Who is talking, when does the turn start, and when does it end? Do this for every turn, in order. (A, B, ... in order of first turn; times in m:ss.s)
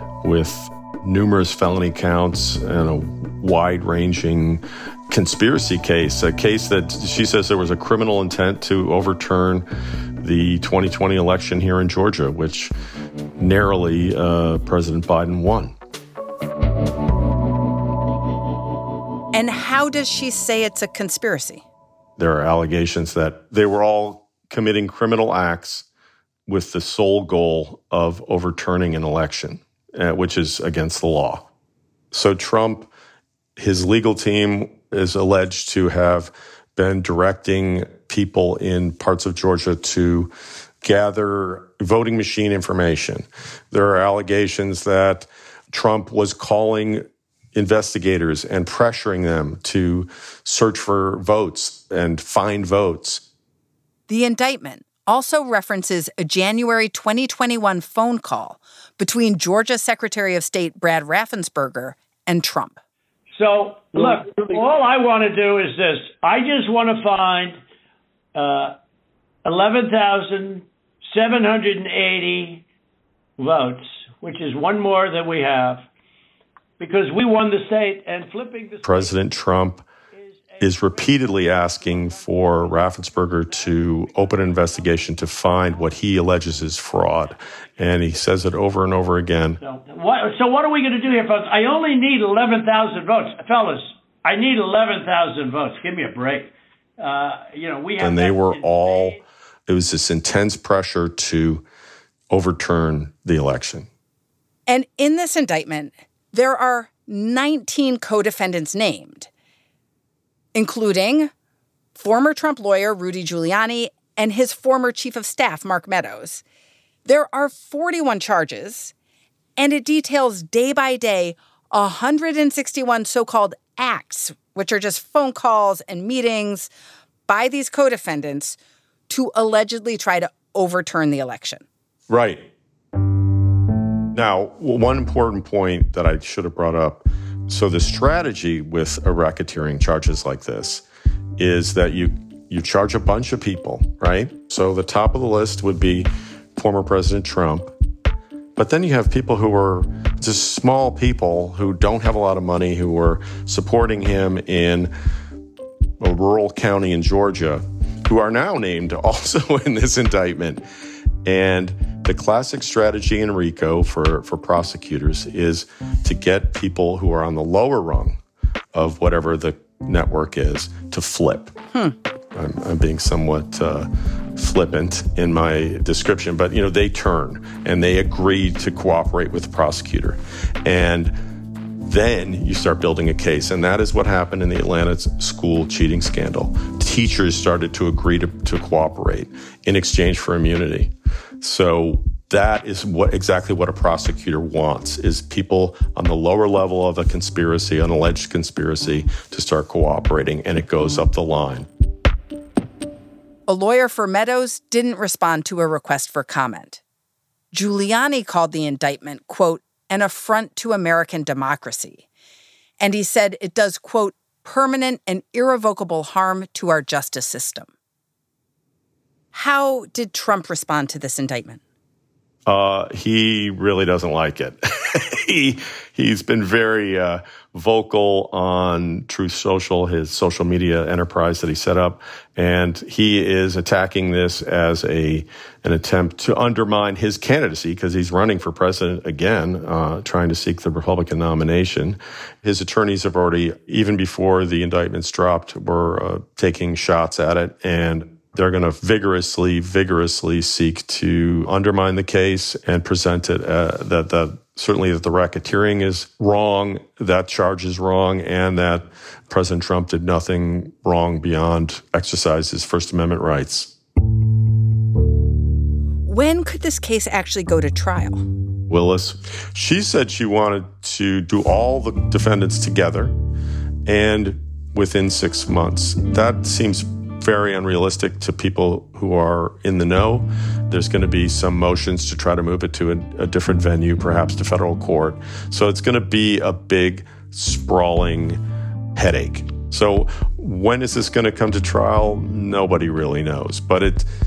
0:00.2-0:09.6 A
0:10.2-0:12.7 A
0:13.4-0:15.7 A
0:19.3-0:21.6 B
0:22.2-0:25.9 A
0:26.5-0:31.5 A
0:32.1-0:32.9 A
0:33.6-0:40.3 A
0:40.8-0:47.0 A
0:47.5-0:53.2 A
0:54.1-1:02.8 B
1:03.3-1:07.6 C
1:08.3-1:08.8 C
1:09.4-1:12.6 C
1:13.4-1:15.8 C
1:16.8-1:19.2 C
1:18.8-1:19.8 A
1:20.2-1:25.1 C
1:20.6-1:29.6 A
1:29.6-1:39.2 C
1:38.0-1:41.6 A
1:42.3-1:43.9 A
1:44.7-1:49.3 B
1:50.5-1:51.3 B
1:52.0-1:56.4 B
1:57.0-1:58.9 B
1:59.6-2:06.7 B
2:07.3-2:08.6 B
2:09.1-2:11.6 B
2:12.1-2:12.4 A
2:14.1-2:20.8 A
2:21.4-2:27.7 A
2:28.6-2:34.9 A
2:36.0-2:40.6 A
2:41.2-2:48.2 A
2:48.7-2:51.5 A
2:52.3-3:01.2 A
3:01.8-3:21.7 A
3:23.5-3:26.8 B
3:27.5-3:32.0 B
3:32.8-3:37.7 B
3:39.3-3:41.6 B
3:42.5-4:23.7 A
4:26.0-4:28.2 B
4:28.7-4:33.1 A
4:33.8-4:48.4 A
4:48.9-4:54.1 A